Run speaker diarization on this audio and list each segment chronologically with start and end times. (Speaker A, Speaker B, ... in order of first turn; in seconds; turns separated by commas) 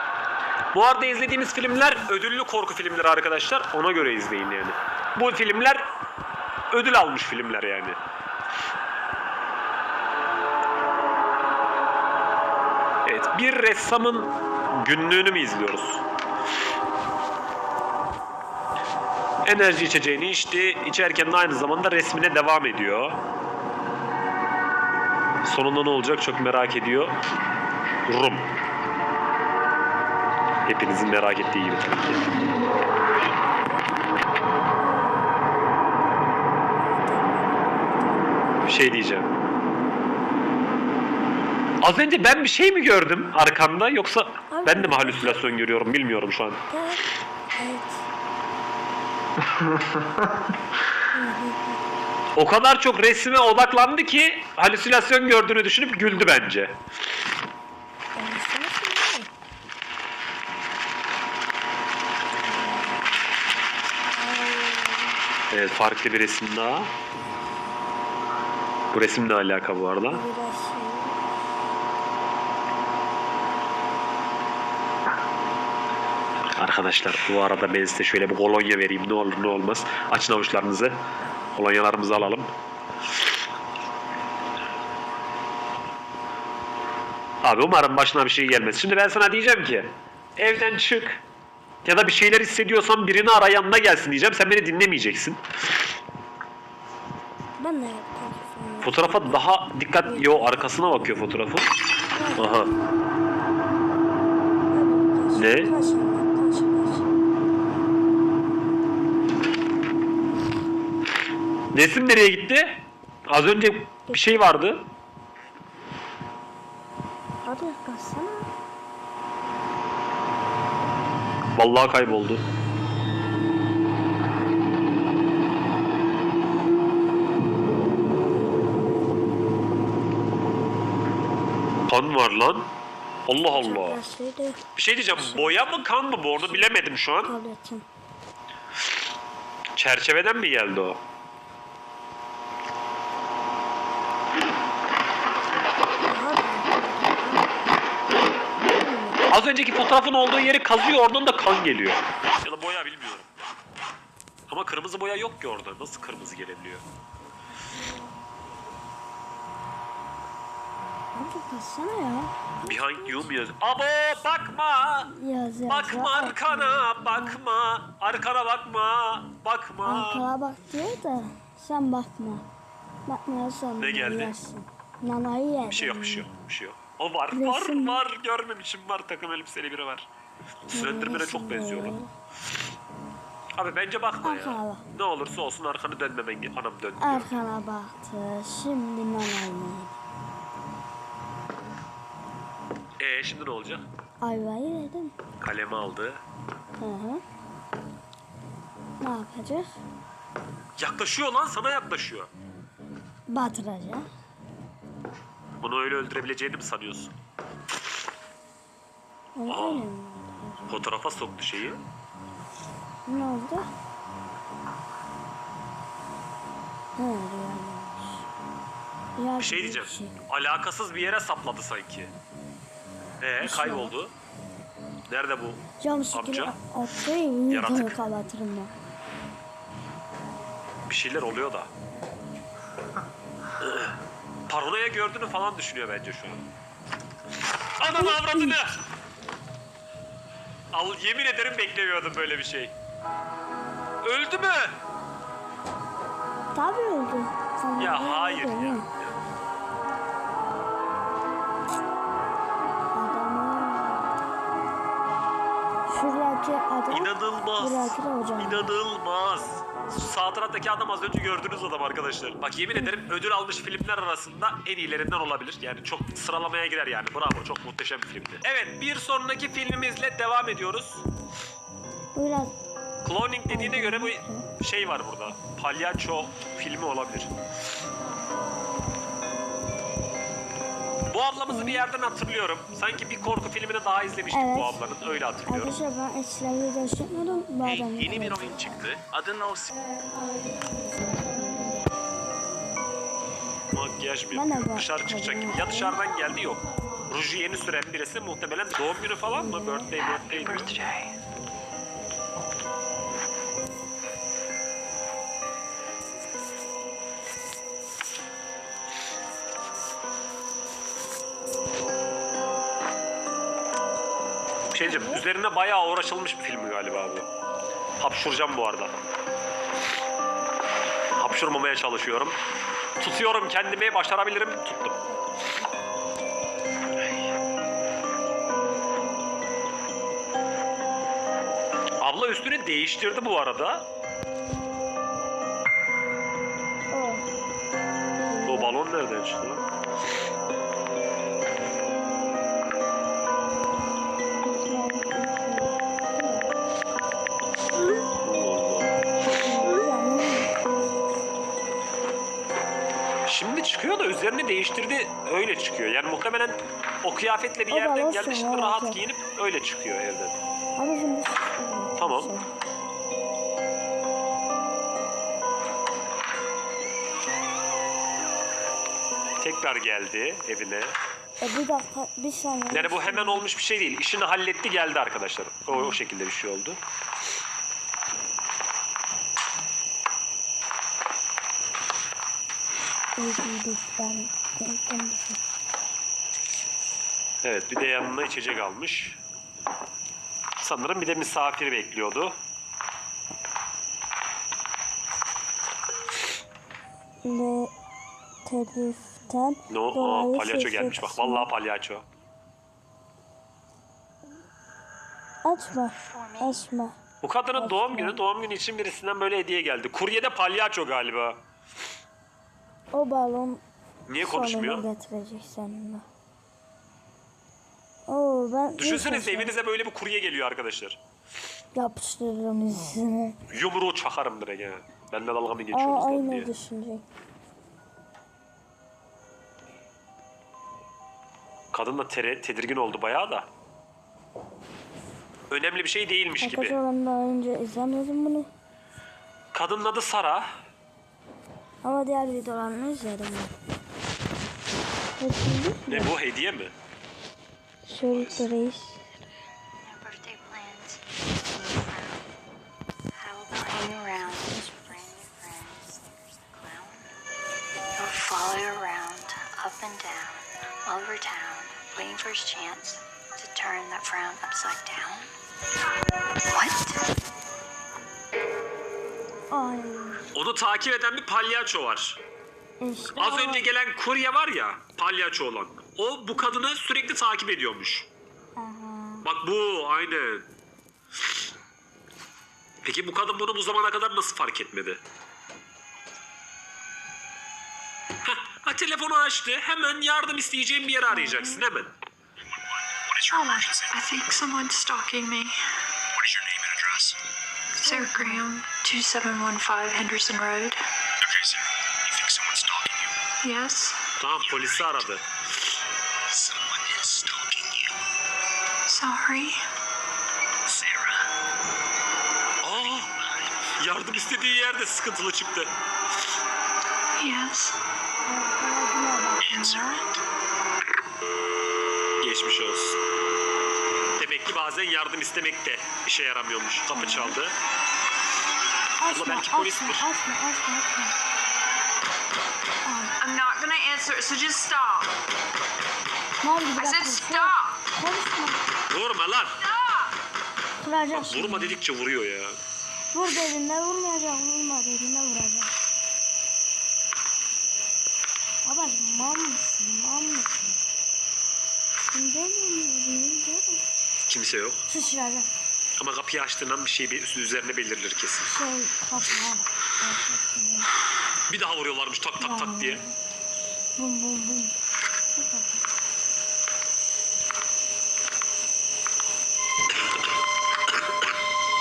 Speaker A: 0.7-5.9, Speaker A: 6.7-8.0, Speaker A: 13.1-16.0, Speaker A: 19.4-23.2, Speaker A: 25.4-27.2, Speaker A: 28.1-28.5, Speaker A: 30.7-32.2, Speaker B: 33.4-35.4, Speaker B: 36.8-38.9, Speaker A: 38.6-39.3, Speaker A: 41.8-46.6, Speaker B: 44.5-45.9, Speaker B: 46.7-48.1, Speaker B: 51.1-51.8, Speaker A: 52.4-56.8, Speaker B: 58.1-59.3, Speaker B: 62.4-63.2, Speaker B: 64.2-65.2, Speaker A: 65.5-66.9, Speaker B: 67.2-67.8, Speaker A: 68.9-70.2, Speaker B: 70.1-71.3, Speaker A: 76.6-81.0, Speaker A: 81.5-82.5, Speaker A: 87.4-91.2, Speaker A: 91.8-95.4, Speaker B: 97.6-101.1, Speaker A: 98.8-101.7, Speaker B: 102.1-102.8, Speaker A: 102.4-102.7, Speaker B: 104.7-107.1, Speaker A: 105.3-105.7, Speaker A: 111.7-114.9, Speaker B: 114.1-114.7, Speaker B: 117.5-118.5, Speaker A: 121.6-122.5, Speaker A: 131.9-132.7, Speaker A: 133.3-134.0, Speaker B: 133.4-137.9, Speaker A: 134.8-137.3, Speaker A: 139.8-141.0, Speaker B: 146.1-147.8, Speaker B: 148.7-149.3, Speaker A: 149.3-153.3, Speaker A: 154.5-156.8, Speaker B: 161.1-163.3, Speaker A: 162.6-165.1, Speaker B: 165.1-167.4, Speaker A: 165.7-170.3, Speaker B: 169.8-172.5, Speaker B: 173.1-176.3, Speaker A: 173.8-174.3, Speaker A: 175.7-180.1, Speaker B: 177.3-178.0, Speaker A: 180.7-182.0, Speaker B: 180.7-182.1, Speaker A: 183.6-187.4, Speaker B: 184.2-184.8, Speaker B: 187.0-190.0, Speaker A: 193.0-193.9, Speaker B: 194.2-195.2, Speaker A: 195.4-196.2, Speaker B: 196.8-197.2, Speaker B: 199.0-199.7, Speaker A: 200.8-202.3, Speaker B: 203.3-204.1, Speaker A: 205.6-207.1, Speaker B: 209.4-210.8, Speaker A: 209.5-209.9, Speaker A: 210.7-211.8, Speaker B: 213.1-213.7, Speaker B: 217.0-218.2, Speaker B: 219.2-220.2, Speaker A: 219.4-222.1, Speaker A: 223.2-224.1, Speaker B: 223.4-223.9, Speaker A: 225.1-226.6, Speaker B: 225.8-228.7, Speaker A: 227.5-228.0, Speaker A: 230.9-231.7, Speaker A: 233.6-234.0, Speaker A: 234.5-236.5, Speaker A: 237.8-238.8, Speaker B: 237.8-238.7, Speaker A: 240.7-242.7, Speaker A: 244.0-244.8, Speaker B: 246.5-248.9, Speaker A: 247.8-249.1, Speaker B: 252.9-254.1, Speaker B: 255.9-258.7, Speaker A: 256.9-271.0, Speaker B: 262.8-263.0, Speaker B: 272.1-272.5, Speaker A: 273.1-277.3, Speaker B: 273.5-274.5, Speaker A: 281.1-285.8, Speaker B: 281.5-281.8, Speaker B: 284.3-284.8, Speaker B: 285.5-288.8, Speaker C: 287.6-289.7, Speaker B: 289.9-291.9, Speaker A: 293.7-300.7, Speaker B: 294.3-296.1, Speaker B: 299.3-299.9, Speaker D: 300.0-301.2, Speaker A: 314.7-317.3, Speaker B: 314.8-315.2, Speaker A: 318.0-318.9, Speaker A: 321.2-322.4, Speaker A: 323.0-325.0, Speaker A: 332.0-333.9, Speaker B: 336.9-337.3, Speaker B: 338.3-338.8, Speaker A: 338.5-339.6, Speaker B: 344.5-346.6, Speaker A: 348.2-348.9, Speaker B: 349.3-350.6, Speaker A: 353.3-360.4, Speaker B: 357.7-359.0, Speaker B: 360.8-362.5, Speaker A: 362.0-362.3, Speaker A: 369.4-370.9, Speaker B: 371.4-373.5, Speaker A: 372.7-376.8, Speaker B: 375.7-376.0, Speaker B: 383.2-385.4, Speaker A: 387.4-389.2, Speaker A: 390.6-392.4, Speaker B: 397.2-397.7, Speaker B: 398.4-401.5, Speaker A: 399.7-402.1, Speaker B: 405.4-407.0, Speaker E: 406.0-406.7, Speaker A: 407.2-411.4, Speaker B: 407.6-408.2, Speaker B: 412.9-413.6, Speaker A: 414.1-414.9, Speaker B: 414.1-416.1, Speaker B: 418.1-419.5, Speaker A: 418.8-421.0, Speaker B: 421.7-423.4, Speaker A: 423.5-426.5, Speaker B: 425.7-427.1, Speaker A: 431.7-433.5, Speaker A: 435.5-436.8, Speaker B: 436.4-438.5, Speaker A: 439.5-440.5, Speaker B: 441.8-443.6, Speaker B: 445.2-446.1, Speaker A: 445.9-446.7, Speaker B: 447.9-449.1, Speaker A: 448.1-448.4, Speaker E: 449.8-452.3, Speaker E: 453.2-457.1, Speaker B: 454.1-455.1, Speaker E: 458.0-465.3, Speaker E: 466.5-467.0, Speaker B: 469.5-470.2, Speaker A: 470.3-472.2, Speaker B: 472.8-473.6, Speaker A: 473.2-478.1, Speaker B: 478.6-479.3, Speaker A: 479.2-480.5, Speaker A: 482.8-485.0, Speaker A: 488.2-491.9, Speaker B: 491.1-491.6, Speaker F: 493.1-493.9, Speaker D: 493.3-495.6, Speaker F: 496.2-497.2, Speaker D: 497.8-500.8, Speaker B: 497.9-498.4, Speaker F: 501.2-503.1, Speaker D: 503.4-504.0, Speaker A: 504.2-505.2, Speaker F: 506.3-507.9, Speaker D: 508.9-509.6, Speaker F: 510.7-511.1, Speaker A: 512.6-513.1, Speaker A: 513.8-515.7, Speaker D: 517.2-517.8, Speaker B: 518.3-520.0, Speaker A: 522.2-523.0, Speaker A: 524.2-527.5, Speaker B: 526.9-527.4, Speaker B: 529.0-531.1, Speaker A: 529.1-530.1, Speaker B: 532.8-533.1, Speaker D: 533.2-535.1, Speaker B: 536.4-538.6, Speaker D: 536.8-537.8, Speaker A: 538.9-539.6, Speaker D: 539.6-540.1, Speaker B: 540.8-541.8, Speaker A: 541.1-542.6, Speaker B: 543.1-545.7, Speaker B: 548.6-550.5, Speaker B: 552.1-553.8, Speaker A: 554.3-554.8, Speaker B: 554.9-555.5, Speaker A: 556.0-558.5, Speaker B: 558.5-560.9, Speaker A: 561.5-563.0, Speaker B: 562.4-563.1, Speaker B: 564.0-564.8, Speaker B: 565.4-565.8